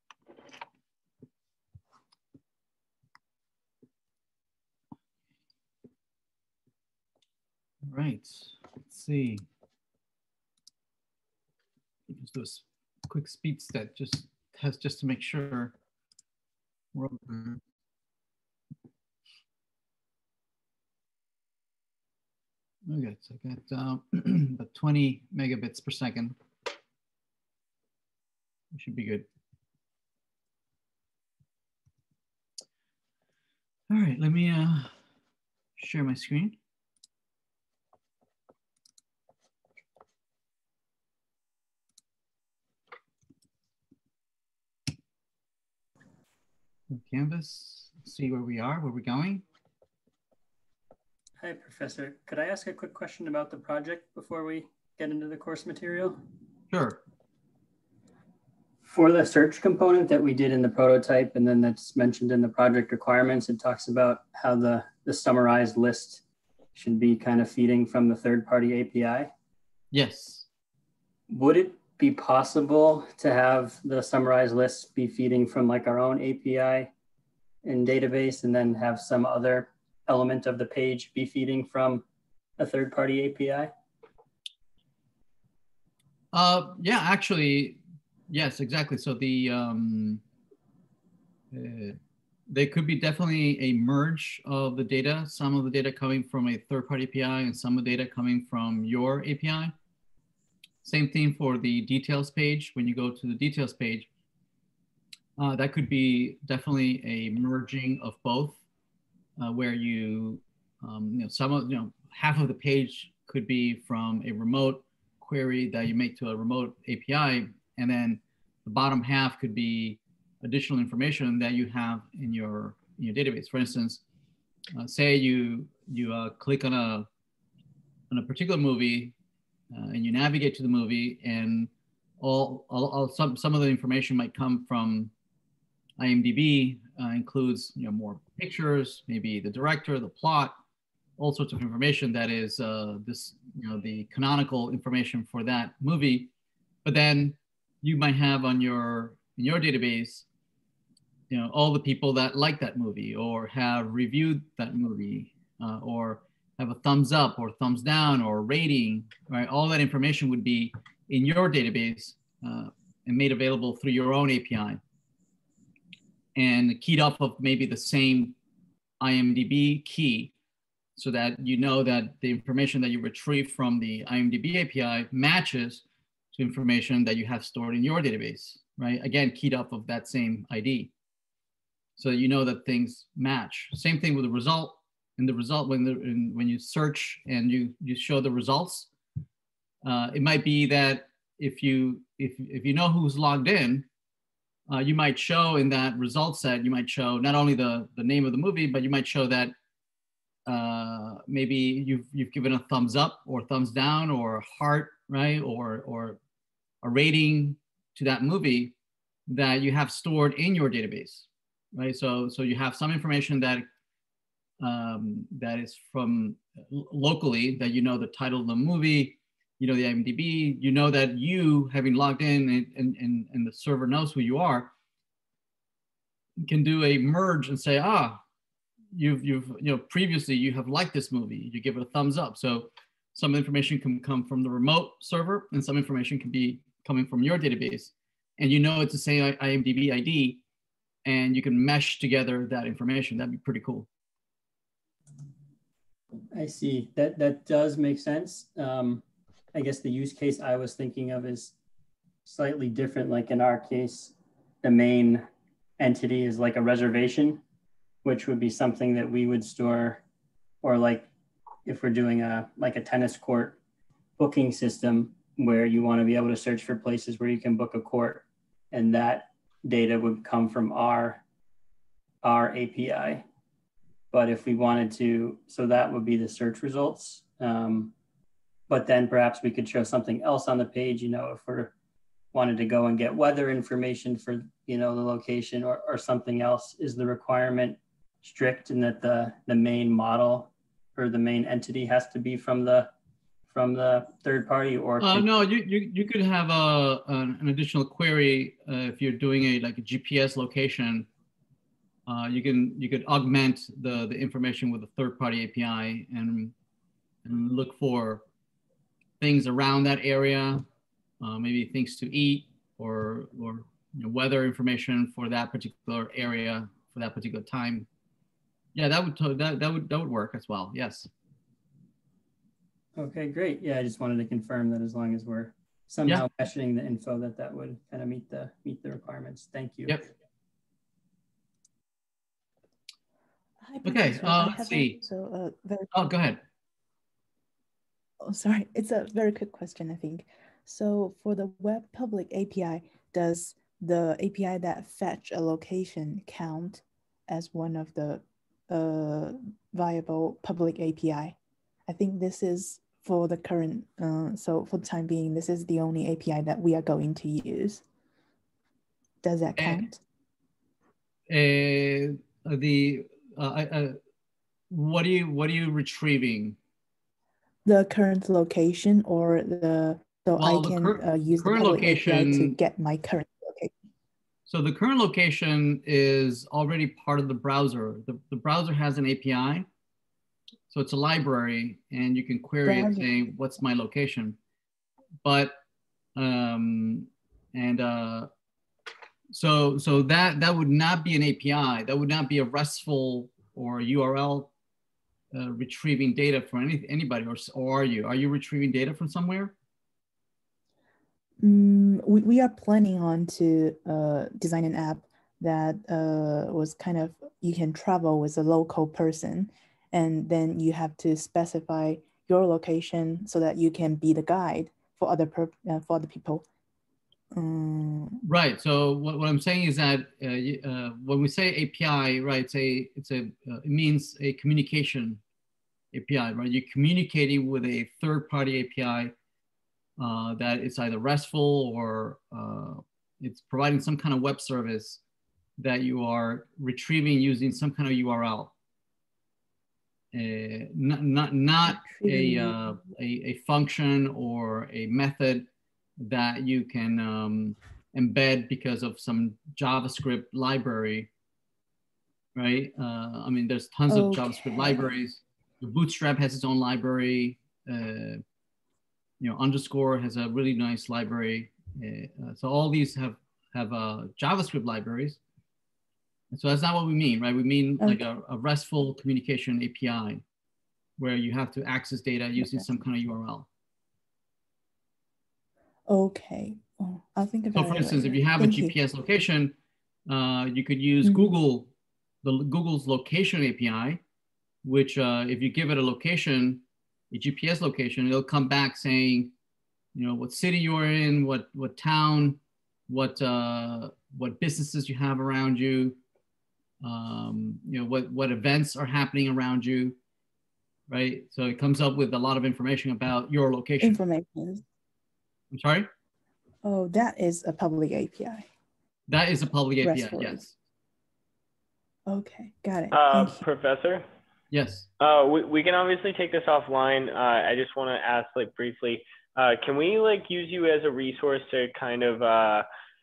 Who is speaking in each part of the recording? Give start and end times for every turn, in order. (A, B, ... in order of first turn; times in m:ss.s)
0:07.9-0:09.4 A
0:12.1-0:15.8 A
0:16.9-0:17.6 A
0:22.9-0:26.4 A
0:28.7-0:29.3 A
0:33.9-0:34.9 A
0:35.8-0:36.6 A
0:46.9-0:49.4 A
0:51.4-0:56.2 B
0:56.7-0:57.0 A
0:58.8-1:06.2 B
1:06.7-1:09.3 B
1:09.9-1:10.5 A
1:11.3-1:16.9 B
1:17.6-1:22.0 B
1:22.6-1:23.7 B
1:26.3-1:27.8 A
1:28.3-1:30.2 A
1:31.5-1:32.0 A
1:32.5-1:39.7 A
1:40.8-1:44.1 A
1:45.4-1:48.6 A
1:49.4-2:04.0 A
2:04.7-2:07.1 A
2:08.1-2:09.2 A
2:09.7-2:15.1 A
2:16.0-2:20.6 A
2:21.2-2:26.3 A
2:26.8-2:30.2 A
2:31.3-2:44.8 A
2:46.4-2:48.4 A
2:49.0-2:50.3 A
2:51.0-3:00.9 A
3:02.0-3:08.9 A
3:09.8-3:13.9 A
3:14.7-3:19.5 A
3:20.5-3:26.2 A
3:26.8-3:28.8 A
3:29.3-3:33.7 A
3:34.6-3:44.7 A
3:46.4-3:48.2 A
3:48.9-4:00.4 A
4:01.0-4:03.9 A
4:06.3-4:11.5 B
4:12.3-4:15.2 B
4:15.8-4:17.4 B
4:18.0-4:20.0 B
4:20.6-4:21.1 B
4:21.6-4:23.6 B
4:24.2-4:31.2 B
4:32.2-4:33.2 B
4:34.1-4:37.9 B
4:38.7-4:41.7 B
4:42.3-4:52.9 B
4:53.5-4:55.3 B
4:55.0-5:01.1 A
5:02.1-5:06.5 A
5:07.2-5:08.2 A
5:09.2-5:10.6 A
5:11.2-5:17.9 A
5:18.8-5:21.1 A
5:23.0-5:30.0 B
5:33.6-5:36.0 C
5:33.8-5:35.0 A
5:35.9-5:36.4 A
5:38.2-5:51.4 C
5:51.9-5:57.8 C
5:59.2-6:00.0 C
5:59.6-5:59.9 A
6:01.3-6:04.0 A
6:04.7-6:06.6 A
6:07.6-6:13.7 C
6:10.4-6:12.5 A
6:14.5-6:19.7 A
6:20.7-6:24.4 A
6:22.6-6:23.0 C
6:25.2-6:25.6 A
6:26.2-6:28.3 A
6:29.3-6:34.5 A
6:35.3-6:39.5 A
6:41.4-6:56.4 C
6:57.3-6:58.2 C
6:58.2-7:05.2 A
7:05.9-7:09.1 A
7:10.0-7:15.0 A
7:15.6-7:18.5 A
7:20.1-7:25.5 A
7:21.8-7:22.7 C
7:26.0-7:31.1 A
7:32.4-7:38.2 A
7:33.9-7:34.8 C
7:39.2-7:45.2 A
7:46.3-7:50.2 A
7:51.0-7:53.5 A
7:55.9-7:58.8 C
7:57.5-7:59.5 A
8:00.1-8:01.7 A
8:02.2-8:04.0 A
8:04.6-8:09.3 A
8:09.9-8:16.0 A
8:16.8-8:20.0 A
8:20.9-8:24.0 A
8:23.8-8:24.6 C
8:25.5-8:25.9 A
8:26.6-8:28.5 C
8:29.1-8:30.5 A
8:29.8-8:30.4 C
8:32.1-8:33.4 C
8:32.9-8:34.0 D
8:34.5-8:34.9 A
8:35.0-8:42.6 D